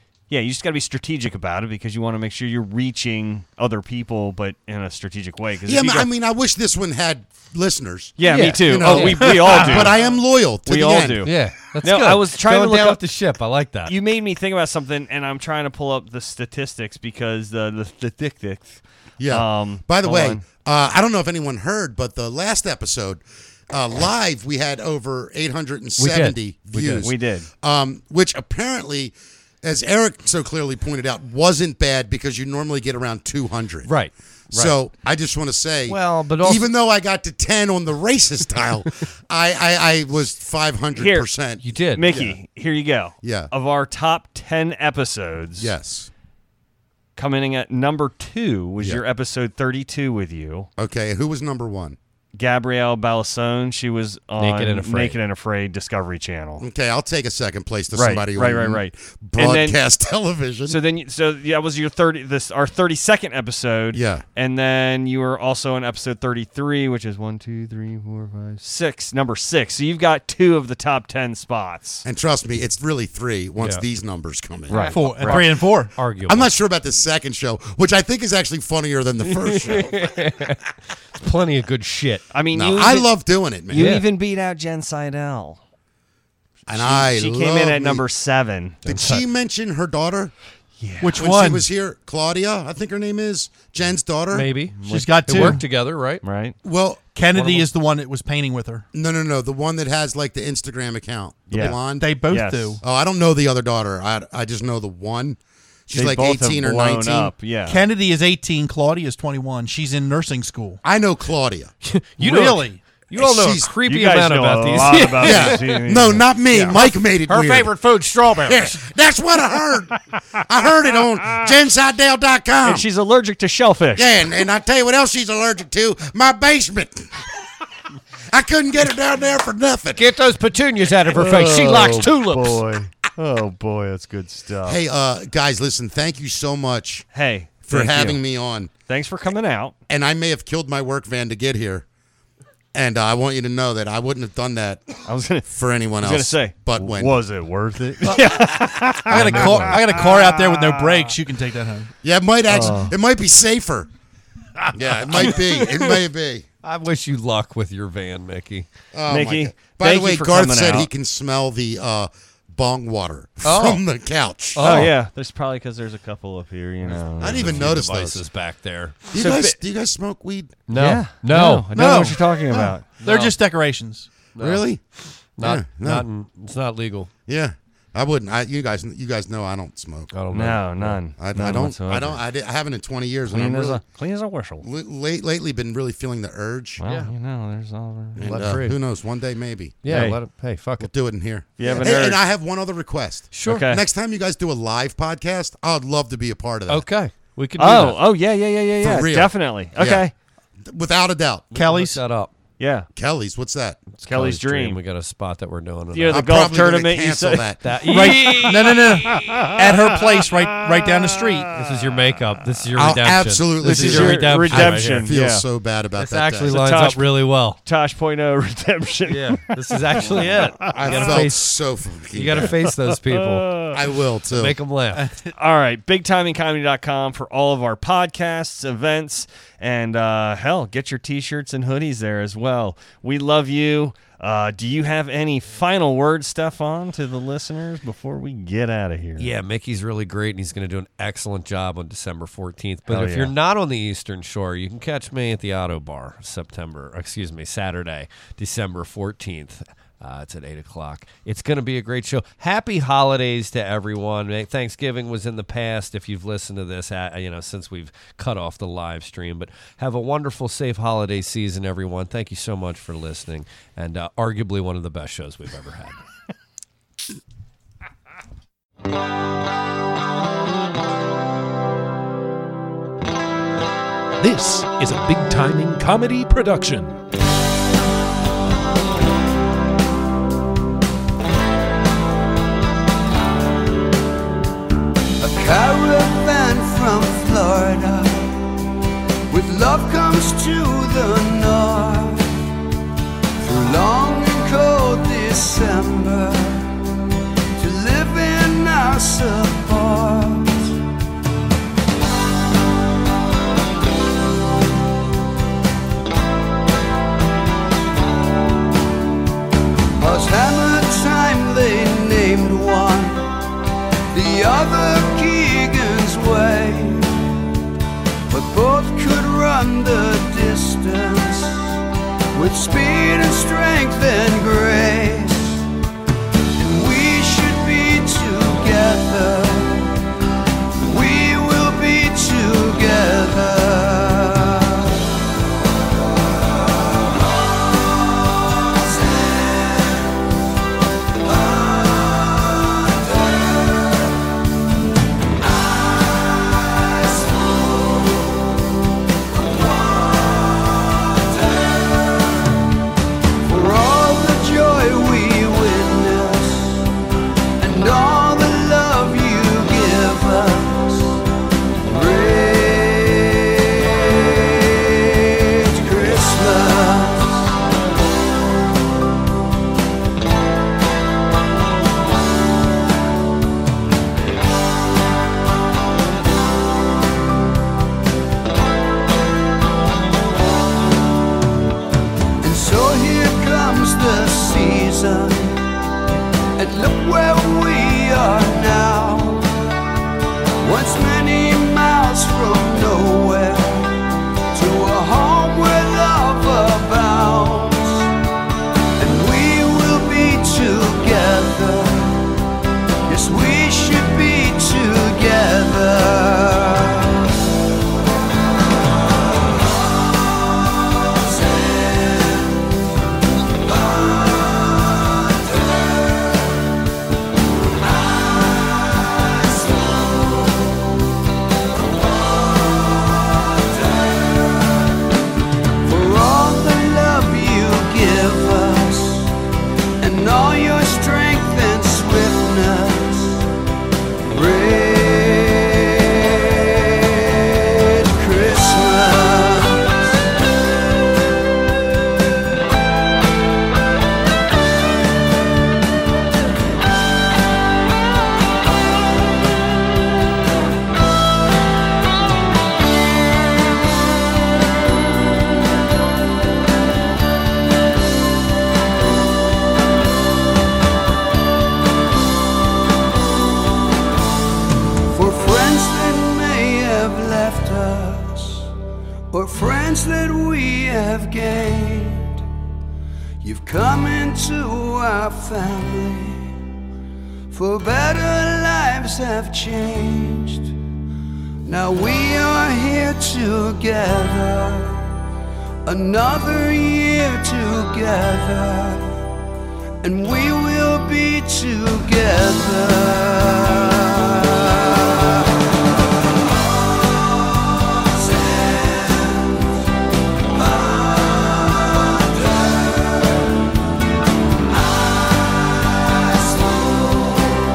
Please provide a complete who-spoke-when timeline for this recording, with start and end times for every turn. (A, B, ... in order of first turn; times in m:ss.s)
0:00.3-0:06.1 A
0:05.6-0:11.3 B
0:08.2-0:10.1 A
0:08.3-0:09.9 C
0:10.6-0:13.0 A
0:11.2-0:14.0 C
0:13.9-0:20.4 A
0:19.2-0:33.9 B
0:26.0-0:27.0 C
0:27.0-0:27.5 A
0:33.9-0:34.7 C
0:34.5-0:41.6 B
0:35.9-0:36.7 C
0:41.0-0:41.3 A
0:41.6-0:42.4 C
0:42.0-0:45.7 A
0:43.2-0:43.5 B
0:45.6-0:46.1 B
0:47.2-0:50.7 A
0:50.8-0:52.0 B
0:52.3-0:56.6 A
0:54.4-0:55.2 C
0:56.6-1:00.8 B
0:58.0-0:59.8 A
1:00.7-1:12.0 A
1:03.9-1:04.2 B
1:12.0-1:15.4 B
1:13.6-1:13.8 C
1:14.7-1:15.5 A
1:14.7-1:16.5 C
1:14.9-1:16.0 D
1:16.3-1:20.0 B
1:19.4-1:20.6 C
1:21.2-1:22.2 C
1:22.3-1:23.1 A
1:22.5-1:23.9 B
1:23.7-1:25.6 A
1:23.7-1:24.1 C
1:26.7-1:28.0 B
1:26.7-1:28.8 A
1:28.8-1:30.3 B
1:28.9-1:29.2 C
1:30.8-1:31.2 A
1:31.0-1:31.7 D
1:31.2-1:34.5 B
1:34.3-1:36.2 C
1:34.8-1:35.6 A
1:34.8-1:35.6 D
1:36.2-1:36.6 A
1:36.6-1:37.0 B
1:37.1-1:38.9 D
1:37.2-1:37.7 C
1:38.9-1:42.1 B
1:41.5-1:42.8 A
1:42.0-1:42.8 D
1:42.8-1:47.3 B
1:45.9-1:47.8 A
1:47.7-1:50.8 D
1:50.8-1:51.7 B
1:51.8-1:55.6 C
1:52.2-1:52.9 D
1:53.1-1:53.7 B
1:53.8-1:56.8 A
1:55.2-1:57.7 B
1:56.5-1:58.8 C
1:58.4-2:02.8 B
2:02.6-2:04.1 A
2:04.0-2:07.1 B
2:08.3-2:10.0 B
2:10.0-2:12.6 C
2:11.1-2:14.8 A
2:14.6-2:17.1 B
2:17.1-2:18.2 A
2:17.6-2:18.7 B
2:18.9-2:19.7 A
2:19.9-2:21.8 B
2:22.7-2:24.9 B
2:25.1-2:30.2 A
2:25.5-2:27.2 B
2:29.1-2:31.9 D
2:29.2-2:29.7 C
2:32.0-2:33.9 B
2:32.5-2:32.9 A
2:34.7-2:36.5 B
2:35.2-2:36.0 C
2:36.6-2:38.7 C
2:38.9-2:44.8 B
2:39.1-2:40.9 A
2:43.4-2:43.8 C
2:44.6-2:45.0 C
2:44.6-2:47.7 A
2:46.9-2:49.1 C
2:47.2-2:48.2 B
2:49.1-2:50.6 B
2:49.1-2:49.6 A
2:50.7-2:51.9 C
2:50.8-2:52.9 A
2:51.3-2:54.1 D
2:53.0-2:53.4 C
2:54.3-2:54.7 C
2:54.4-2:54.8 B
2:55.4-2:57.1 C
2:55.4-2:56.1 B
2:57.3-3:00.1 B
3:00.1-3:01.0 C
3:00.3-3:02.2 A
3:01.2-3:03.8 B
3:03.3-3:04.6 A
3:04.6-3:06.8 B
3:06.8-3:08.2 A
3:06.8-3:07.1 C
3:08.2-3:10.1 B
3:08.2-3:08.8 C
3:09.8-3:10.9 C
3:09.9-3:10.2 A
3:10.8-3:16.9 B
3:11.6-3:12.2 A
3:11.6-3:11.9 C
3:13.3-3:13.7 C
3:13.4-3:13.8 A
3:16.7-3:18.0 C
3:17.6-3:20.1 A
3:18.8-3:20.0 B
3:20.6-3:21.5 B
3:21.5-3:22.3 C
3:21.5-3:22.0 D
3:22.6-3:22.9 A
3:23.0-3:23.8 B
3:24.0-3:26.6 C
3:24.1-3:24.8 A
3:25.9-3:29.6 A
3:26.1-3:27.6 B
3:27.6-3:29.5 C
3:27.8-3:31.5 D
3:31.5-3:35.1 C
3:32.8-3:36.6 B
3:33.6-3:35.4 A
3:33.7-3:33.9 D
3:36.0-3:37.6 C
3:36.5-3:37.1 A
3:37.6-3:41.3 A
3:39.1-3:41.4 C
3:40.8-3:42.5 B
3:42.1-3:43.7 C
3:42.4-3:43.8 A
3:43.7-3:44.6 B
3:44.3-3:45.1 C
3:44.9-3:45.3 D
3:45.3-3:59.3 A
3:59.2-4:26.0 C
4:02.9-4:03.3 A
4:34.2-4:37.0 E
4:45.2-4:48.4 F
4:49.3-4:52.5 F
4:53.4-4:56.7 F
4:57.6-5:00.8 F
5:10.0-5:13.3 F
5:14.1-5:17.2 F
5:18.3-5:21.8 F
5:22.3-5:25.7 F
5:26.6-5:29.9 F
5:30.8-5:35.0 F
5:53.4-5:56.9 F
5:57.6-6:01.2 F
6:01.9-6:07.5 F
6:22.4-6:25.6 F
6:26.6-6:29.5 F
6:30.6-6:34.0 F
6:34.5-6:38.1 F
6:39.0-6:42.2 F
6:43.1-6:47.2 F
7:05.8-7:09.3 F
7:10.0-7:13.5 F
7:14.3-7:20.1 F
7:45.1-7:48.7 F
7:49.3-7:52.4 F
7:53.4-7:56.6 F
7:57.5-8:00.8 F
8:01.7-8:05.1 F
8:05.9-8:09.1 F
8:10.0-8:15.3 F
8:18.4-8:19.4 F